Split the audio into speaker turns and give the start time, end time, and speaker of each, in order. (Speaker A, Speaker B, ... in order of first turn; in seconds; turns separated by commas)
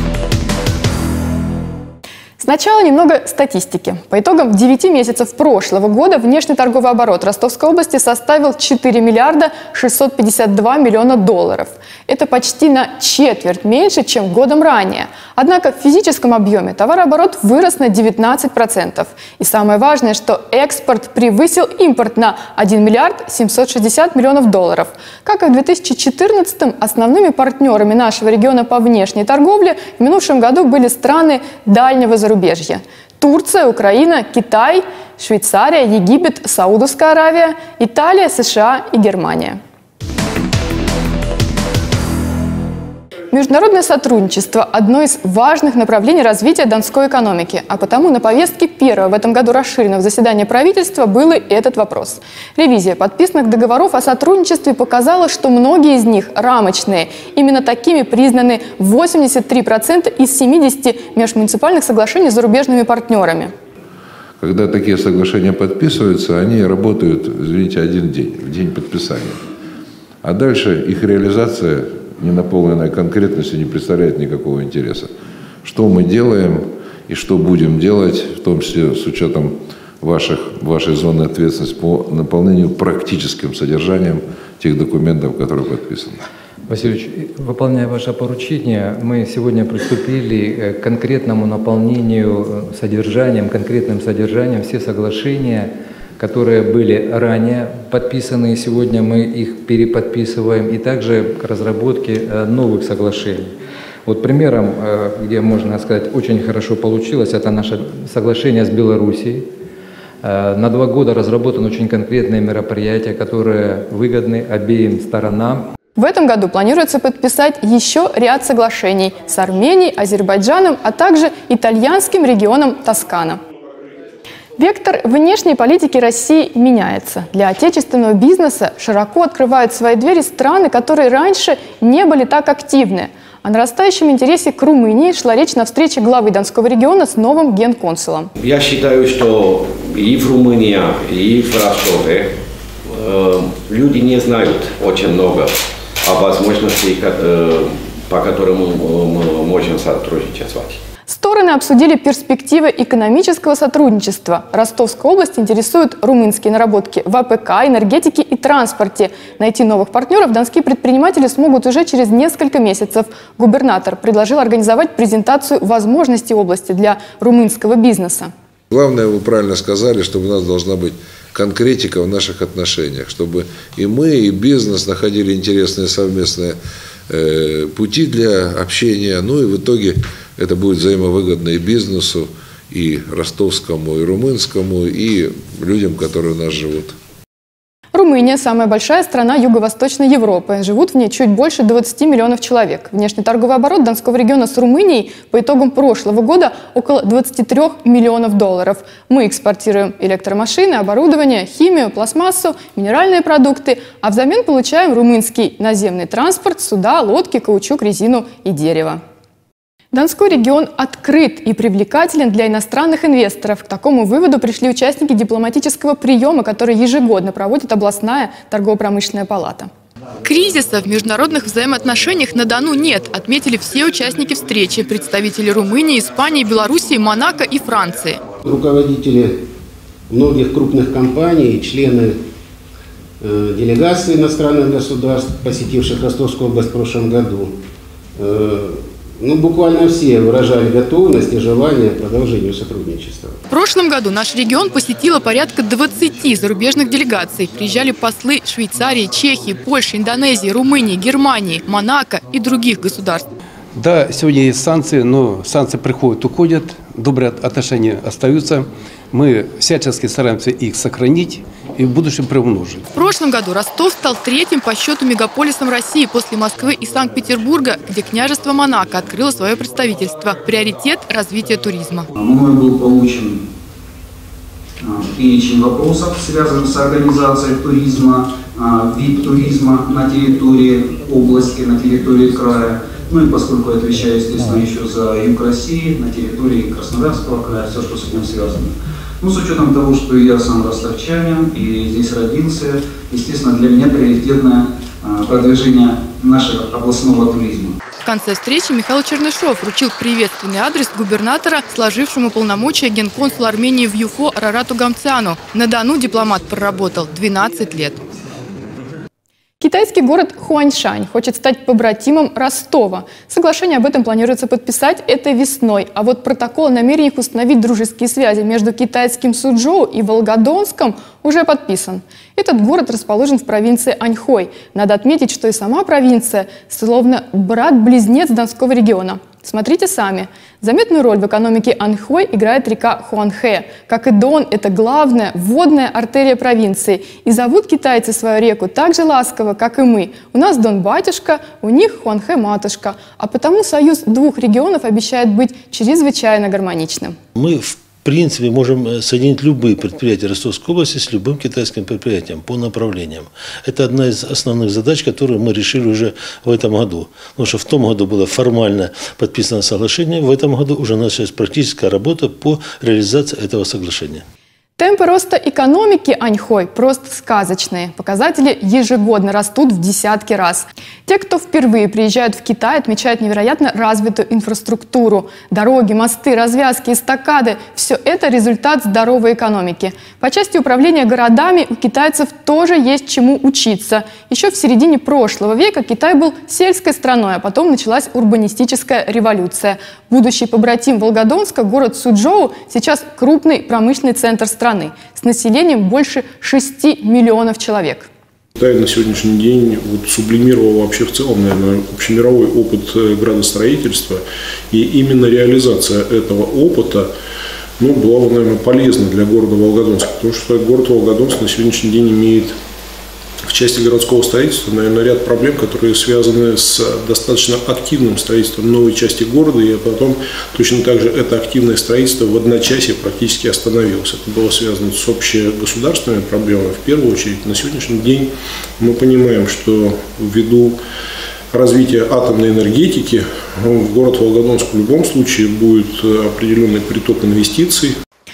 Speaker A: 2.4-39.6, Speaker A: 43.3-63.5, Speaker B: 64.4-69.4, Speaker B: 70.2-75.1, Speaker B: 75.6-86.2, Speaker C: 86.7-103.5, Speaker C: 104.1-109.5, Speaker C: 110.2-115.6, Speaker A: 116.0-123.4, Speaker A: 124.6-138.3, Speaker D: 138.4-142.3, Speaker D: 142.9-150.8, Speaker A: 151.1-168.3, Speaker B: 168.7-176.6, Speaker B: 177.1-186.9, Speaker A: 187.9-209.0, Speaker A: 209.9-219.7, Speaker A: 220.2-228.2, Speaker E: 228.5-229.3, Speaker E: 230.1-232.1, Speaker E: 233.3-237.5, Speaker E: 238.2-238.6, Speaker E: 239.2-243.3, Speaker A: 243.5-253.3, Speaker F: 253.8-262.8, Speaker A: 262.9-272.1, Speaker G: 272.1-273.4, Speaker G: 274.8-297.8, Speaker A: 298.0-308.0, Speaker A: 309.6-347.1, Speaker H: 347.4-364.2, Speaker F: 347.4-348.4, Speaker F: 349.2-350.8, Speaker F: 354.5-356.8, Speaker F: 357.4-358.1, Speaker A: 364.8-398.1, Speaker I: 398.6-407.1, Speaker I: 407.8-412.6, Speaker I: 413.5-430.8, Speaker I: 431.5-438.0